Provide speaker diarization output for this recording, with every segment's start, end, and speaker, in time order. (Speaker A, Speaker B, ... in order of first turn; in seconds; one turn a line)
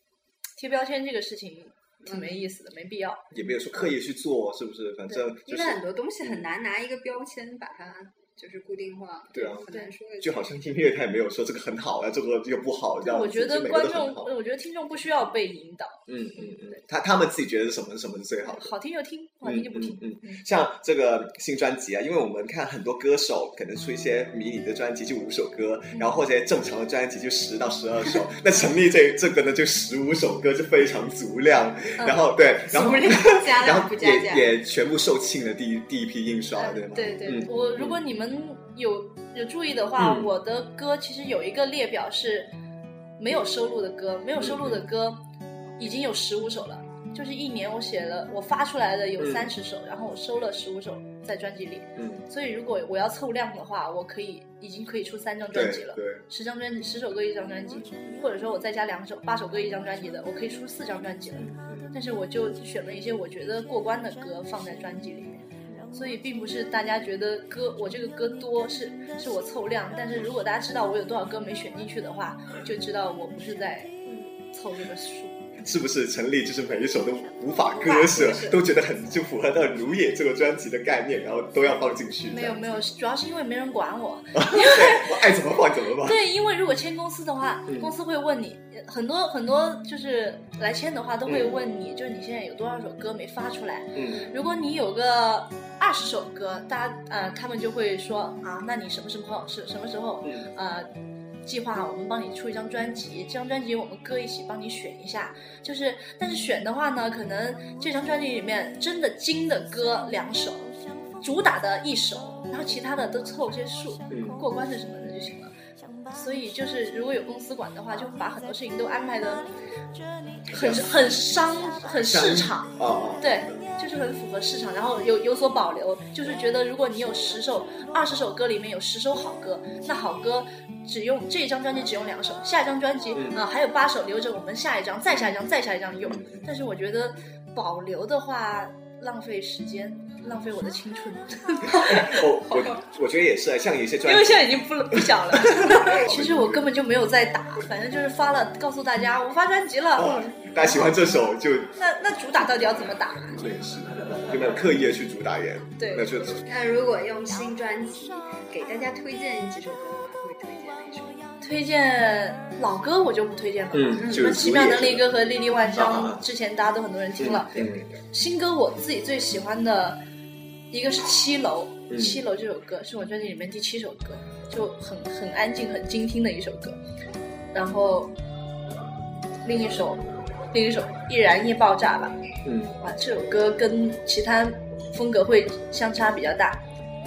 Speaker A: 0.6-3.2
Speaker B: 2.1-2.3
Speaker C: 3.3-6.5
Speaker B: 5.4-10.6
Speaker C: 9.3-9.7
Speaker C: 10.2-14.3
Speaker A: 13.0-16.0
Speaker C: 16.1-18.7
Speaker A: 18.4-20.4
Speaker C: 19.4-38.0
Speaker B: 32.7-34.5
Speaker A: 36.6-42.5
Speaker C: 40.0-40.3
Speaker A: 43.2-45.2
Speaker C: 44.4-44.8
Speaker A: 45.8-73.9
Speaker C: 49.2-49.5
Speaker C: 52.0-52.2
Speaker C: 55.5-56.2
Speaker C: 61.4-61.9
Speaker A: 74.5-75.4
Speaker C: 75.6-82.7
Speaker B: 77.8-78.6
Speaker A: 82.3-85.2
Speaker C: 84.3-86.2
Speaker A: 86.0-100.9
Speaker C: 91.3-91.6
Speaker C: 93.9-94.3
Speaker A: 101.5-115.5
Speaker C: 114.1-114.4
Speaker A: 116.1-119.5
Speaker A: 120.5-142.6
Speaker C: 120.5-120.9
Speaker C: 122.0-123.6
Speaker C: 133.2-133.4
Speaker C: 136.1-136.4
Speaker C: 141.7-146.7
Speaker A: 144.0-150.9
Speaker C: 150.0-151.8
Speaker A: 151.8-153.4
Speaker C: 152.4-156.5
Speaker A: 155.8-156.4
Speaker B: 156.4-161.2
Speaker A: 161.4-170.0
Speaker C: 163.7-165.0
Speaker B: 164.0-164.4
Speaker C: 165.7-166.2
Speaker C: 167.2-167.9
Speaker A: 170.7-176.8
Speaker C: 171.9-172.2
Speaker A: 177.5-178.1
Speaker A: 179.4-182.2
Speaker C: 182.4-182.8
Speaker A: 182.8-186.6